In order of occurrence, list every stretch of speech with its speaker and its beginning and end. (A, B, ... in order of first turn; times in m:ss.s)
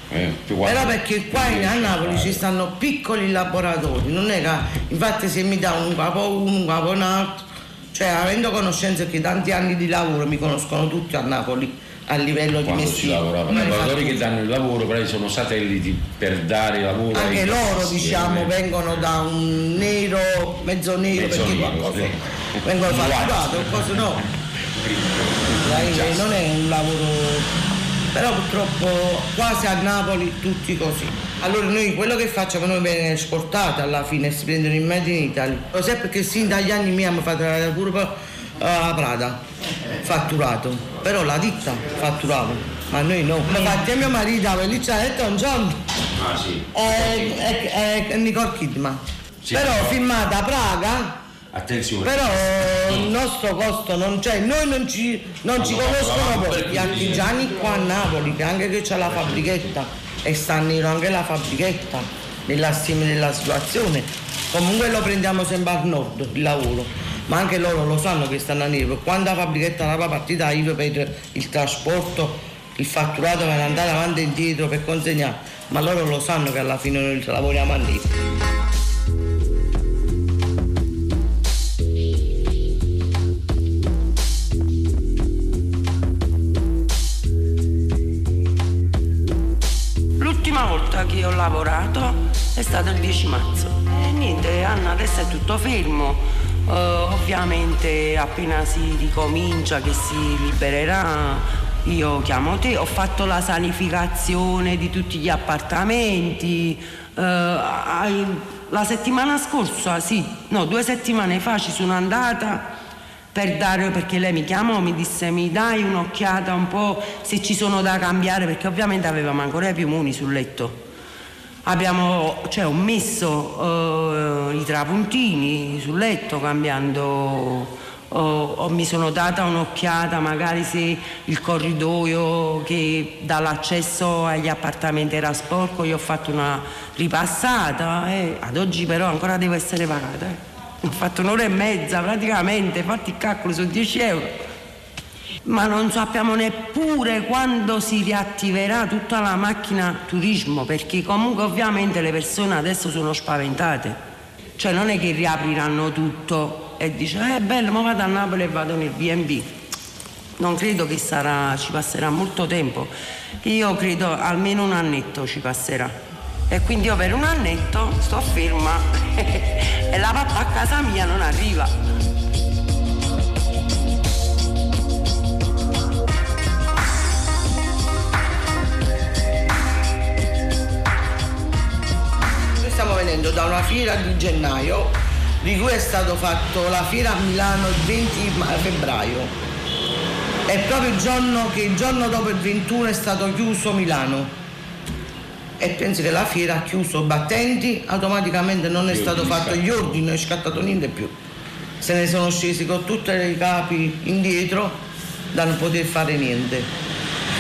0:00.1-0:02.4 A
0:00.6-0:14.2 B
0:12.6-0:18.6 A
0:17.1-0:22.1 B
0:21.1-0:22.2 A
0:22.6-0:24.2 B
0:22.9-0:24.2 A
0:24.8-0:26.3 A
0:25.6-0:27.5 B
0:28.1-0:39.4 B
0:40.0-0:45.8 B
0:46.2-0:47.3 A
0:46.7-0:51.2 B
0:49.5-0:50.0 A
0:51.5-0:53.1 A
0:52.0-1:18.1 B
0:55.5-0:58.0 A
0:59.1-0:59.7 A
1:30.2-1:52.7 C
1:53.3-2:00.8 C
2:01.6-2:24.4 C
2:25.4-2:34.0 C
2:34.6-2:39.5 C
2:40.4-2:46.0 C
2:46.5-2:51.8 C
3:02.6-3:09.3 B
3:10.5-3:14.3 B
3:15.6-3:21.1 B
3:18.9-3:20.0 A
3:21.8-3:24.8 B
3:25.3-3:26.7 B